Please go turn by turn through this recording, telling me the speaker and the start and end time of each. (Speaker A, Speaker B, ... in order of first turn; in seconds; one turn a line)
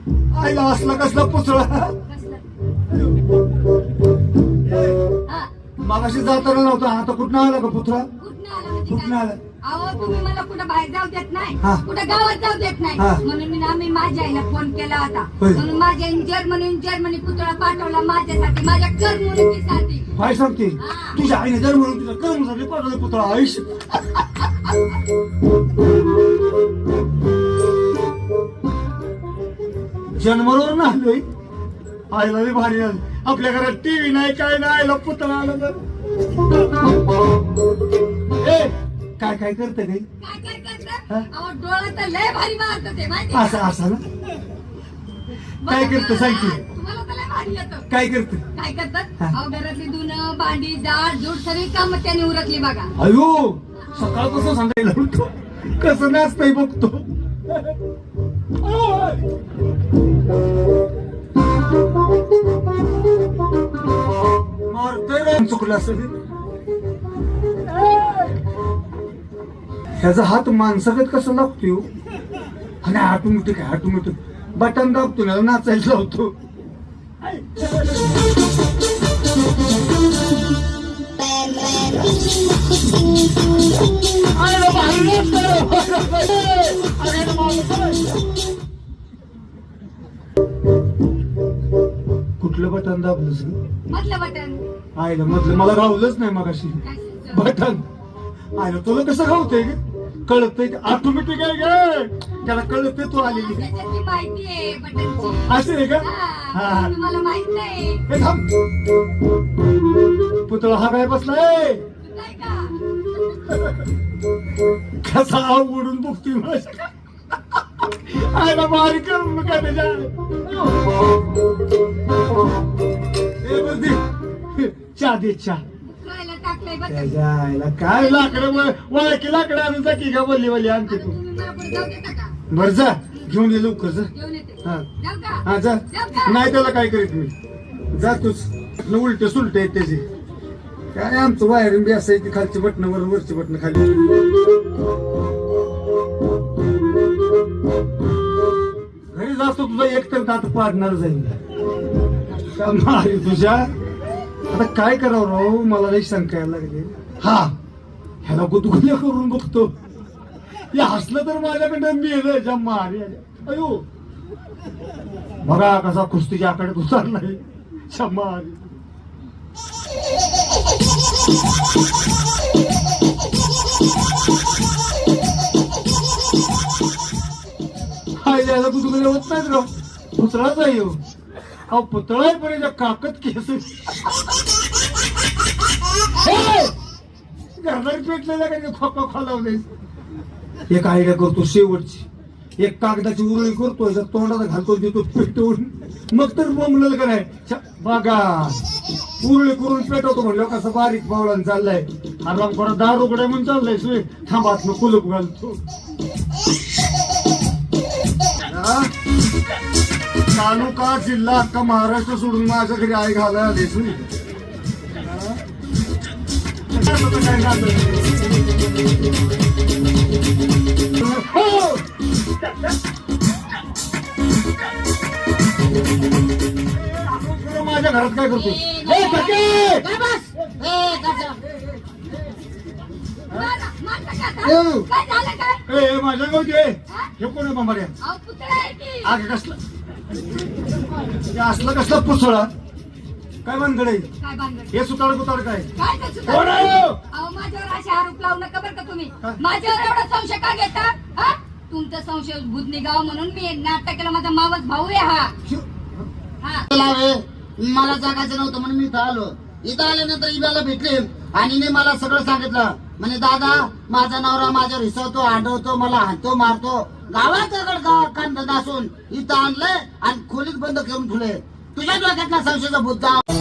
Speaker A: 0.3-1.9
Speaker B: 2.0-2.4
Speaker A: 5.8-8.1
Speaker B: 8.2-20.1
Speaker A: 8.9-9.4
Speaker A: 13.0-13.2
Speaker A: 15.4-15.6
Speaker A: 20.1-24.0
Speaker B: 20.8-21.2
Speaker A: 30.1-31.2
Speaker A: 32.1-35.8
Speaker A: 38.4-40.0
Speaker B: 40.2-43.6
Speaker A: 43.3-44.0
Speaker B: 45.6-47.9
Speaker A: 45.6-46.6
Speaker A: 47.9-48.4
Speaker B: 48.5-52.9
Speaker A: 53.0-57.0
Speaker A: 58.7-59.1
Speaker A: 64.7-66.2
Speaker A: 70.0-71.8
Speaker A: 72.8-76.3
Speaker A: 77.2-78.0
Speaker A: 84.2-88.1
Speaker A: 92.4-93.6
Speaker B: 93.9-94.6
Speaker A: 95.0-97.8
Speaker B: 96.8-97.5
Speaker A: 98.5-103.8
Speaker B: 103.2-108.0
Speaker A: 105.5-106.9
Speaker A: 108.1-108.5
Speaker A: 110.5-111.8
Speaker B: 112.0-112.8
Speaker A: 115.0-116.9
Speaker A: 117.6-120.8
Speaker A: 123.4-125.6
Speaker B: 125.8-127.1
Speaker A: 126.9-131.2
Speaker B: 127.9-128.7
Speaker B: 130.9-132.3
Speaker A: 132.5-134.1
Speaker B: 134.1-136.4
Speaker A: 135.4-137.3
Speaker A: 137.9-140.0
Speaker A: 140.9-144.0
Speaker A: 149.1-151.3
Speaker A: 152.5-153.7
Speaker A: 154.5-157.5
Speaker A: 158.2-159.7
Speaker A: 160.7-163.8
Speaker A: 165.4-168.6
Speaker A: 178.2-181.0
Speaker A: 181.7-183.7
Speaker A: 186.2-186.7
Speaker A: 187.6-189.7
Speaker A: 190.7-192.0
Speaker A: 192.6-198.6
Speaker A: 199.2-205.6
Speaker A: 208.4-208.9
Speaker A: 210.3-214.0
Speaker A: 215.0-215.4
Speaker A: 216.7-218.1
Speaker A: 220.9-221.8
Speaker A: 226.9-229.8
Speaker C: 228.4-231.4
Speaker B: 233.3-235.6
Speaker A: 235.7-237.9
Speaker B: 238.0-239.1
Speaker A: 239.0-239.6
Speaker A: 241.2-242.5
Speaker A: 243.4-244.1
Speaker B: 244.2-244.7
Speaker A: 244.7-245.7
Speaker B: 245.8-255.3
Speaker A: 246.2-247.0
Speaker C: 256.8-273.2